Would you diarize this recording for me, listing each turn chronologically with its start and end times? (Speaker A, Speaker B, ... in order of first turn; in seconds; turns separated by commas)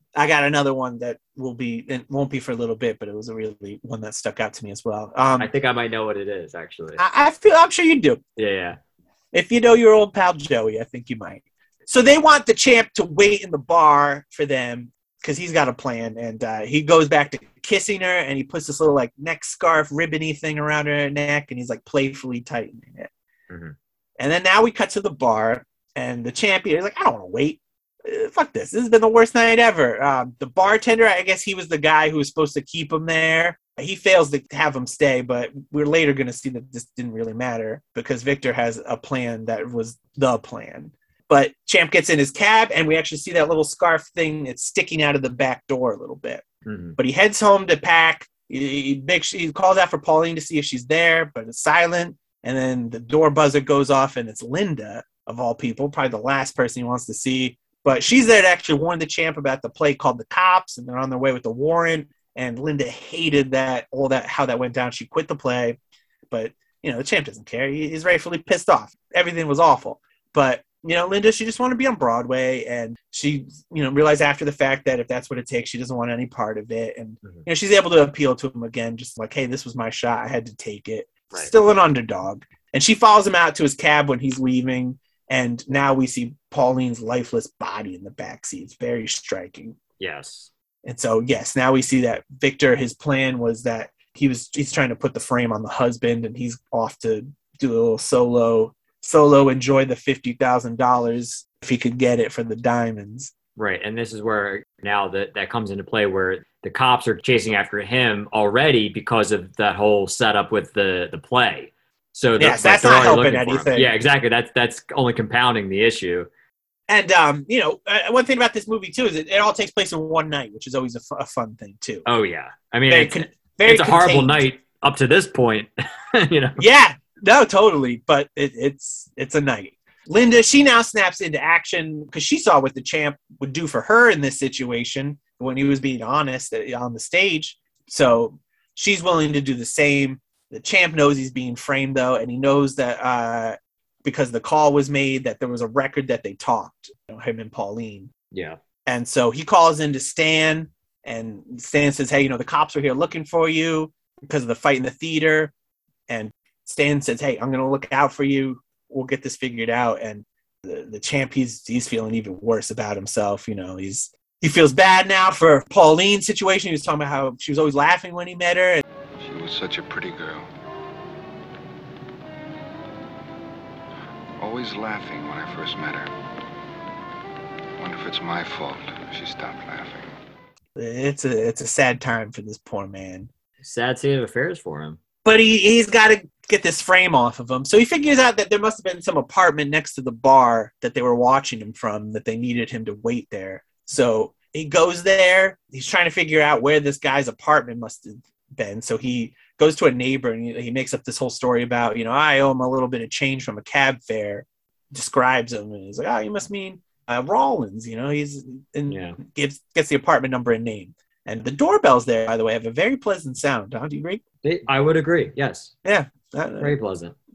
Speaker A: 0.1-5.5, Speaker B: 5.4-7.0, Speaker A: 7.0-8.2, Speaker B: 8.4-8.8, Speaker A: 9.3-23.1, Speaker B: 23.5-23.8, Speaker A: 24.2-46.5, Speaker B: 46.7-47.0, Speaker A: 47.0-65.8, Speaker A: 66.3-89.8, Speaker B: 90.0-90.5, Speaker A: 90.8-103.3, Speaker B: 103.6-116.3, Speaker A: 112.4-113.9, Speaker A: 116.9-122.1, Speaker B: 122.0-126.7, Speaker A: 122.9-124.4, Speaker A: 126.6-148.1, Speaker B: 148.3-148.6, Speaker A: 148.9-155.5, Speaker A: 156.1-168.8, Speaker C: 169.2-170.4, Speaker C: 174.4-176.1, Speaker C: 177.8-180.1, Speaker A: 180.8-183.3, Speaker B: 183.6-185.0, Speaker A: 185.2-214.2, Speaker B: 208.9-209.2, Speaker B: 214.4-215.7, Speaker A: 215.8-216.8, Speaker B: 216.6-217.2